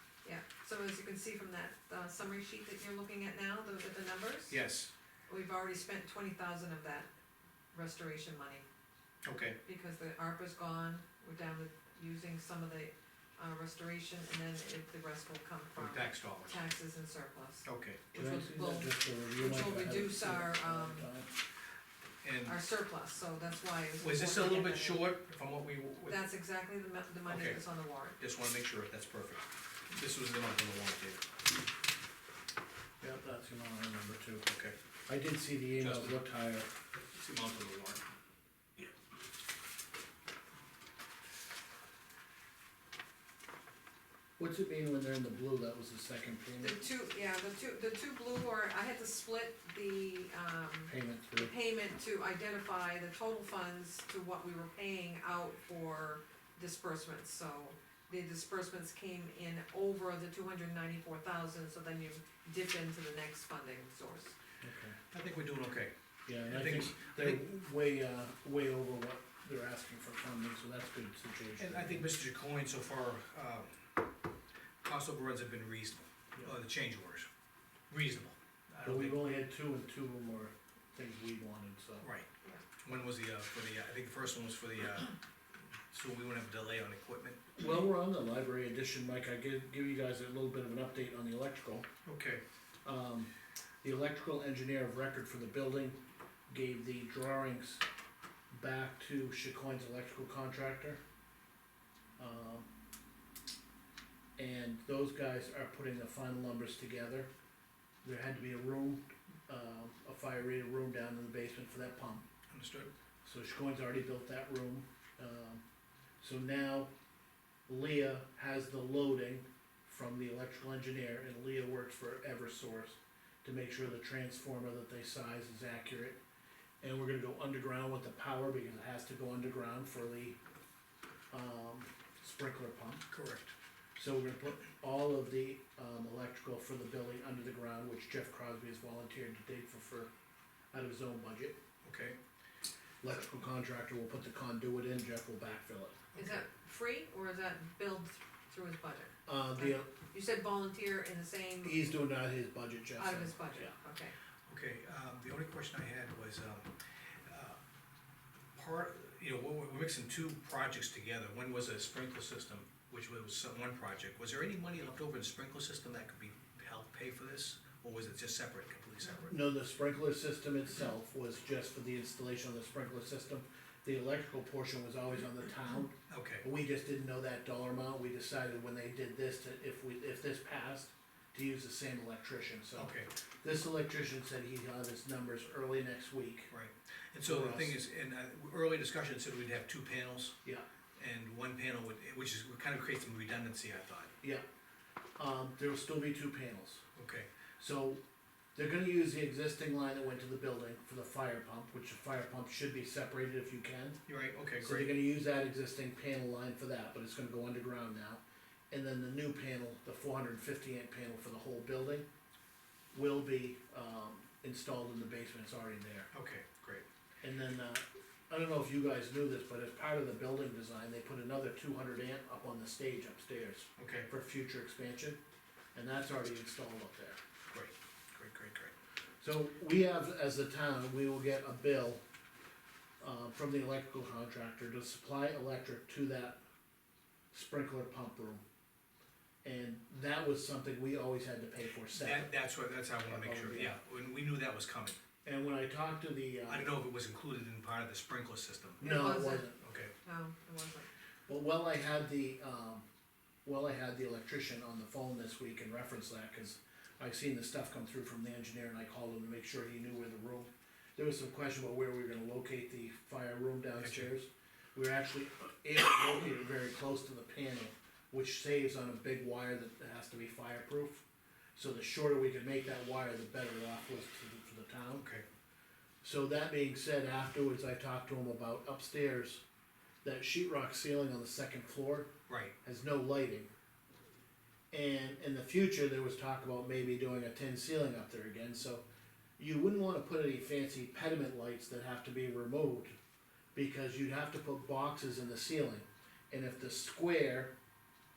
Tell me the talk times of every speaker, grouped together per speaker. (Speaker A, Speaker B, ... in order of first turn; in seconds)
Speaker A: 0.2-4.6, 5.3-7.1, 7.7-8.7, 9.7-21.1, 22.4-25.1, 26.1-28.2, 46.6-64.3, 146.2-151.9, 153.0-154.2, 248.8-249.5, 250.0-250.9
Speaker B: 4.5-4.9, 9.2-9.6, 15.8-16.6, 17.6-18.1, 22.2-22.6, 24.0-26.2, 27.3-27.6, 28.2-31.2, 34.5-34.8, 35.8-36.2, 37.1-38.0, 65.1-65.9, 66.5-67.4, 71.6-73.8, 74.8-77.3, 77.9-79.3, 82.0-82.3, 82.8-85.2, 85.9-87.6, 92.0-92.4, 112.5-112.9, 133.1-133.5, 141.8-142.2, 146.1-146.4, 154.5-156.7, 157.3-157.6, 158.6-169.4, 176.1-176.4, 182.8-183.1, 186.5-190.4, 191.0-194.1, 197.0-197.3, 204.1-204.9, 216.1-216.8, 223.8-224.1, 227.5-228.7, 241.9-245.0, 246.5-248.8, 249.6-249.9, 263.8-264.1, 274.9-275.2, 282.3-282.5
Speaker C: 18.1-21.3, 33.0-34.5, 35.1-36.7, 44.4-46.8, 50.9-51.5, 64.6-65.0, 66.3-72.1, 78.8-82.1, 87.6-91.9, 92.8-93.3, 93.8-97.8, 98.5-101.0, 102.2-102.7, 104.4-107.3, 108.0-112.3, 113.2-115.6, 116.2-116.9, 117.7-126.2, 126.8-130.4, 131.3-133.1, 134.0-140.1, 140.7-141.6, 143.0-146.0, 149.3-149.9, 151.6-153.7, 169.3-186.5, 187.2-187.8, 195.2-196.8, 197.6-198.0, 198.6-204.0, 204.6-212.1, 212.9-216.1, 217.2-225.2, 225.7-227.2, 229.2-232.0, 233.0-236.4, 237.3-238.4, 239.4-242.3, 243.1-243.8, 245.2-246.7, 248.8-249.6, 251.3-252.8, 253.4-271.0, 271.6-275.1, 276.0-279.4, 280.0-282.1, 282.6-283.5, 284.7-288.8, 289.4-292.9, 293.5-297.5